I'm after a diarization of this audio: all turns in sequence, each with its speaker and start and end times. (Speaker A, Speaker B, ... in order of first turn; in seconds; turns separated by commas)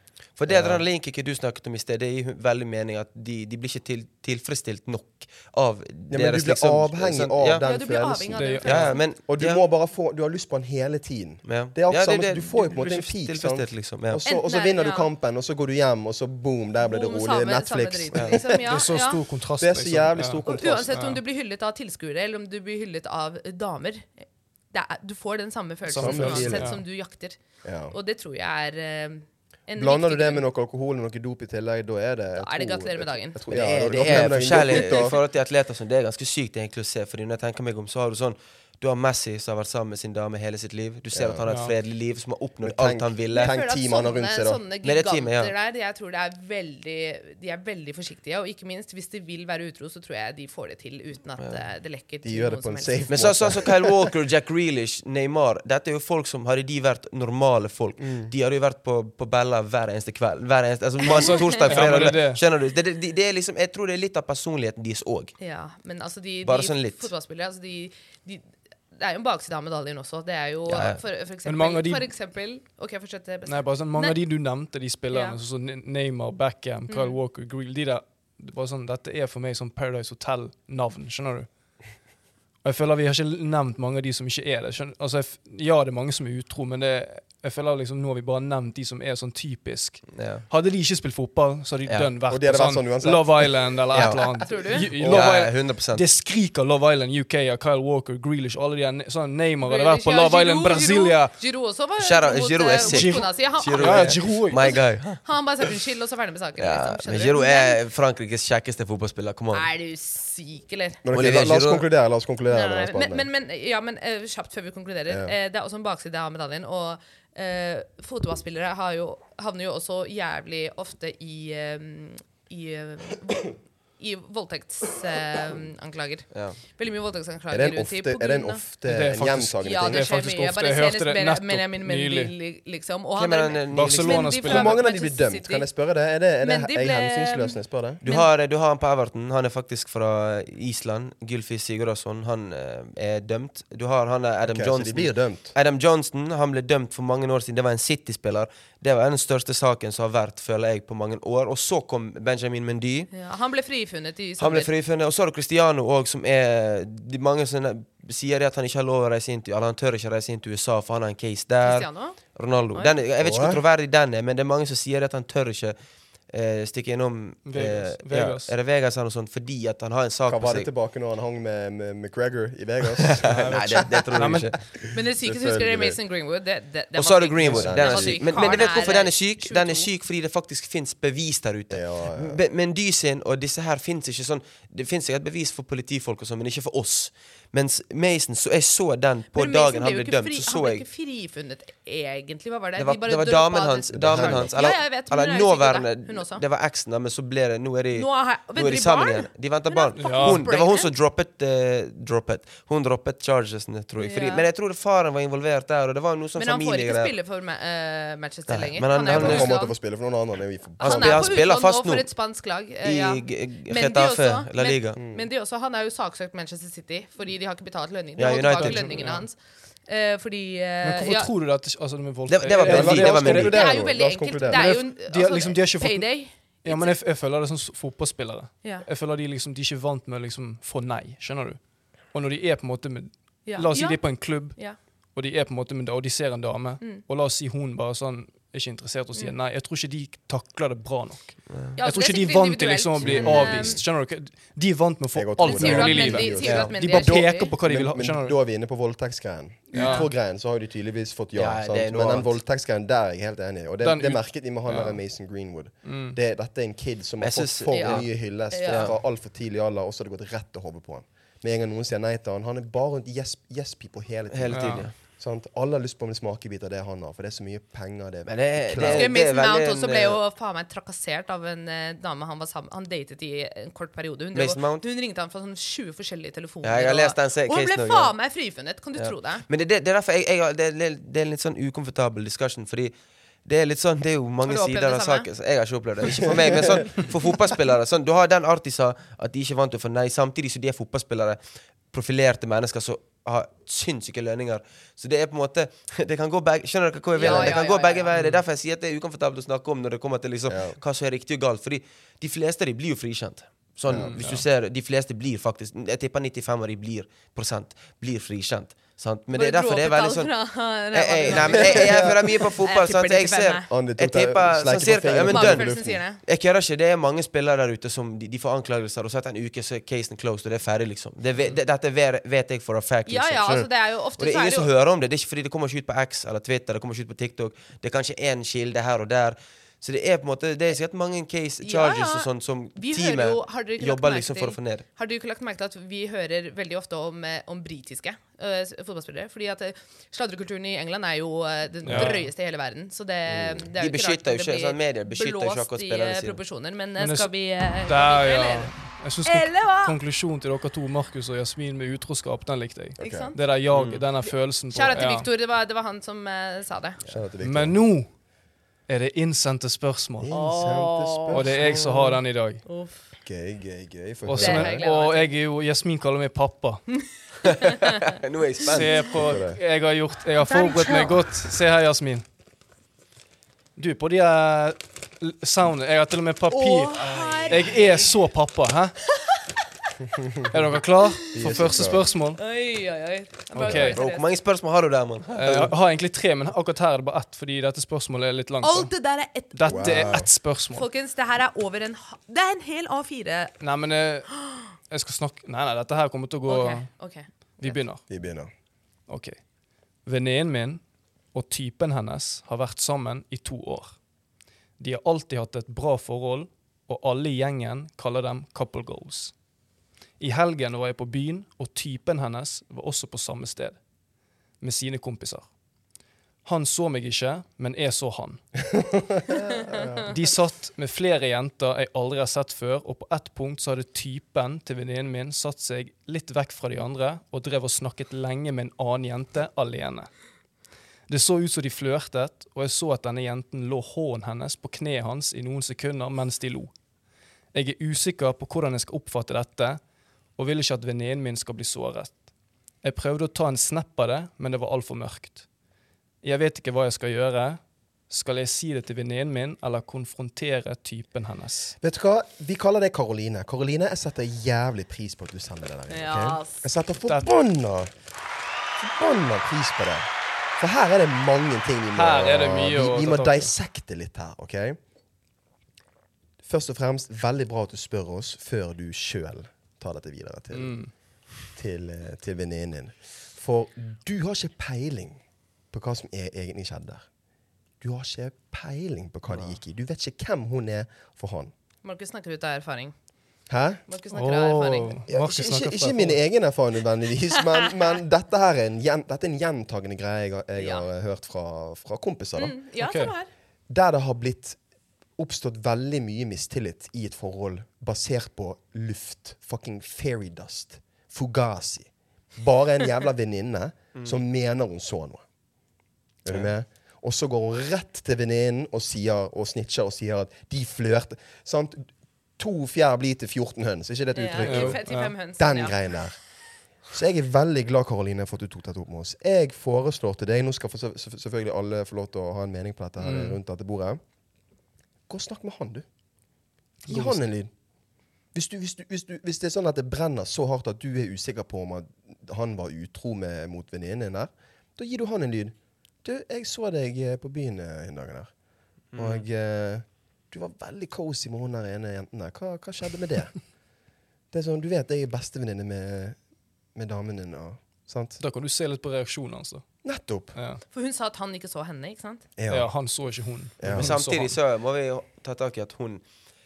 Speaker A: 0.4-7.6, Speaker B: 0.5-0.8, Speaker B: 6.1-18.7, Speaker C: 7.6-9.0, Speaker D: 8.3-8.9, Speaker A: 8.6-9.6, Speaker A: 11.4-14.2, Speaker C: 14.2-15.1, Speaker C: 16.8-19.2, Speaker D: 18.6-21.2, Speaker B: 19.6-21.2, Speaker C: 20.4-27.4, Speaker B: 25.9-26.7, Speaker D: 25.9-26.8, Speaker B: 27.6-27.9, Speaker C: 27.9-30.4, Speaker B: 29.8-35.1, Speaker C: 32.4-33.4, Speaker A: 33.5-43.6, Speaker C: 33.9-35.2, Speaker B: 41.1-41.4, Speaker D: 41.5-41.7, Speaker B: 42.6-44.6, Speaker C: 43.3-53.1, Speaker A: 44.8-45.5, Speaker B: 52.2-54.1, Speaker A: 53.1-65.3, Speaker B: 58.0-58.3, Speaker C: 61.1-61.9, Speaker D: 61.6-62.4, Speaker C: 65.4-74.2, Speaker A: 66.4-67.1, Speaker A: 70.7-71.0, Speaker D: 71.4-72.1, Speaker D: 73.5-81.5, Speaker C: 75.1-75.4, Speaker C: 76.9-77.2, Speaker D: 82.6-101.3, Speaker A: 90.1-90.5, Speaker B: 92.3-94.2, Speaker A: 93.9-94.2, Speaker C: 94.4-94.9, Speaker A: 95.0-96.0, Speaker B: 95.0-95.3, Speaker C: 99.6-107.8, Speaker A: 102.0-105.7, Speaker D: 102.8-104.6, Speaker A: 106.6-109.7, Speaker C: 109.5-111.0, Speaker B: 111.0-113.2, Speaker A: 111.1-111.8, Speaker C: 112.5-128.6, Speaker B: 115.1-115.3, Speaker A: 126.3-126.6, Speaker B: 127.5-130.1, Speaker D: 128.9-132.3, Speaker C: 129.6-135.7, Speaker A: 133.2-134.4, Speaker D: 133.7-134.8, Speaker B: 134.4-138.0, Speaker C: 136.4-138.3, Speaker A: 138.0-153.1, Speaker B: 144.4-145.5, Speaker C: 153.1-154.7, Speaker A: 154.4-165.8, Speaker C: 161.6-162.2, Speaker B: 163.2-163.6, Speaker A: 166.3-170.7, Speaker D: 167.4-168.5, Speaker B: 170.3-176.0, Speaker A: 173.0-174.6, Speaker D: 173.2-174.5, Speaker C: 174.9-179.9, Speaker A: 176.9-190.8, Speaker B: 177.4-178.4, Speaker B: 181.7-182.4, Speaker C: 189.3-196.4, Speaker A: 192.8-207.1, Speaker B: 193.9-194.5, Speaker C: 197.9-200.9, Speaker D: 200.0-200.4, Speaker C: 204.0-204.4, Speaker C: 206.4-209.7, Speaker A: 208.5-209.5, Speaker B: 209.1-211.4, Speaker C: 210.8-221.3, Speaker A: 210.8-212.1, Speaker A: 212.8-215.0, Speaker B: 215.0-215.2, Speaker A: 218.2-219.0, Speaker D: 218.5-219.2, Speaker D: 220.8-223.6, Speaker A: 222.3-223.6, Speaker B: 222.7-224.7, Speaker C: 223.5-227.0, Speaker D: 224.5-226.1, Speaker D: 226.6-231.6, Speaker D: 232.1-234.6, Speaker C: 233.4-234.8, Speaker D: 235.1-248.3, Speaker A: 241.5-241.8, Speaker C: 241.8-243.8, Speaker B: 243.0-243.8, Speaker B: 245.1-269.1, Speaker C: 245.4-247.5, Speaker D: 249.7-250.1, Speaker C: 249.7-250.1, Speaker A: 251.3-252.3, Speaker D: 253.8-255.0, Speaker D: 255.8-256.2, Speaker A: 257.2-258.1, Speaker C: 257.7-258.9, Speaker A: 258.7-258.9, Speaker A: 264.3-264.9, Speaker D: 264.5-264.9, Speaker A: 268.3-270.2, Speaker C: 268.8-279.4, Speaker A: 274.3-274.8, Speaker A: 276.6-278.1, Speaker A: 279.0-282.9, Speaker A: 283.4-291.4, Speaker C: 284.4-285.3, Speaker C: 286.2-286.5, Speaker A: 291.9-310.3, Speaker C: 297.1-298.1, Speaker B: 297.2-297.6, Speaker D: 298.1-298.4, Speaker B: 300.5-300.8, Speaker B: 303.9-304.2, Speaker D: 304.0-304.4, Speaker C: 309.3-313.7, Speaker A: 310.9-334.8, Speaker B: 311.3-312.4, Speaker B: 313.7-316.0, Speaker C: 315.2-316.2, Speaker C: 323.1-324.7, Speaker C: 331.6-349.9, Speaker D: 341.8-342.3, Speaker B: 343.3-343.7, Speaker A: 343.8-346.4, Speaker D: 347.0-355.2, Speaker B: 353.0-353.3, Speaker C: 353.0-353.4, Speaker A: 353.7-354.1, Speaker C: 354.7-357.0, Speaker B: 357.0-357.8, Speaker D: 357.4-358.1, Speaker D: 358.9-360.3, Speaker B: 360.2-362.2, Speaker C: 360.3-361.5, Speaker D: 361.3-362.6, Speaker C: 362.6-363.1, Speaker B: 363.2-364.8, Speaker D: 364.2-366.9, Speaker C: 364.4-365.3, Speaker C: 367.0-368.1, Speaker A: 367.6-369.2, Speaker D: 368.6-372.2, Speaker B: 369.1-369.6, Speaker C: 370.4-371.2, Speaker D: 373.8-378.9, Speaker C: 376.5-378.1, Speaker C: 379.1-379.9, Speaker B: 380.1-380.5, Speaker D: 380.5-382.4, Speaker C: 381.0-381.7, Speaker B: 381.3-382.0, Speaker C: 382.3-384.3, Speaker D: 383.6-384.0, Speaker A: 383.7-385.7, Speaker D: 385.3-388.9, Speaker C: 388.6-390.2, Speaker D: 389.5-390.9, Speaker B: 389.6-390.3, Speaker C: 390.7-393.6, Speaker D: 393.6-396.9, Speaker C: 396.5-397.8, Speaker D: 397.6-398.0, Speaker B: 398.1-398.5, Speaker D: 399.1-399.4, Speaker D: 400.0-400.8, Speaker D: 401.3-403.9, Speaker D: 404.8-409.3, Speaker D: 410.2-413.8, Speaker D: 414.6-415.5, Speaker D: 416.4-418.4, Speaker B: 418.7-420.1, Speaker C: 419.5-420.0, Speaker D: 420.0-430.1, Speaker D: 431.1-436.7, Speaker D: 437.5-439.8, Speaker D: 440.4-442.2, Speaker D: 442.8-445.4, Speaker D: 446.2-451.7, Speaker B: 451.8-457.9, Speaker C: 455.9-456.7, Speaker B: 458.8-464.8, Speaker D: 461.9-463.5, Speaker B: 466.4-470.7, Speaker D: 470.5-470.9, Speaker B: 471.5-475.2, Speaker B: 475.7-477.0, Speaker B: 477.8-481.5, Speaker C: 481.8-482.9, Speaker B: 483.5-483.8, Speaker C: 483.9-485.0, Speaker D: 484.1-486.2, Speaker B: 485.1-492.6, Speaker C: 490.6-490.9, Speaker C: 492.4-493.3, Speaker D: 492.8-493.1, Speaker B: 493.7-494.6, Speaker B: 495.2-505.2, Speaker A: 503.9-504.2, Speaker B: 506.2-514.8, Speaker C: 514.1-515.9, Speaker D: 514.4-515.1, Speaker B: 515.4-516.1, Speaker B: 516.9-524.0, Speaker D: 523.0-523.4, Speaker B: 525.1-525.8, Speaker D: 526.9-527.2, Speaker B: 526.9-527.5, Speaker B: 528.3-538.3, Speaker A: 538.9-539.2, Speaker B: 538.9-543.3, Speaker B: 544.3-546.2, Speaker B: 546.7-548.2, Speaker D: 548.2-549.6, Speaker B: 549.8-550.4, Speaker D: 550.3-550.6, Speaker C: 550.7-552.2, Speaker B: 552.4-552.7, Speaker D: 552.5-554.4, Speaker B: 553.6-553.9, Speaker A: 553.7-556.0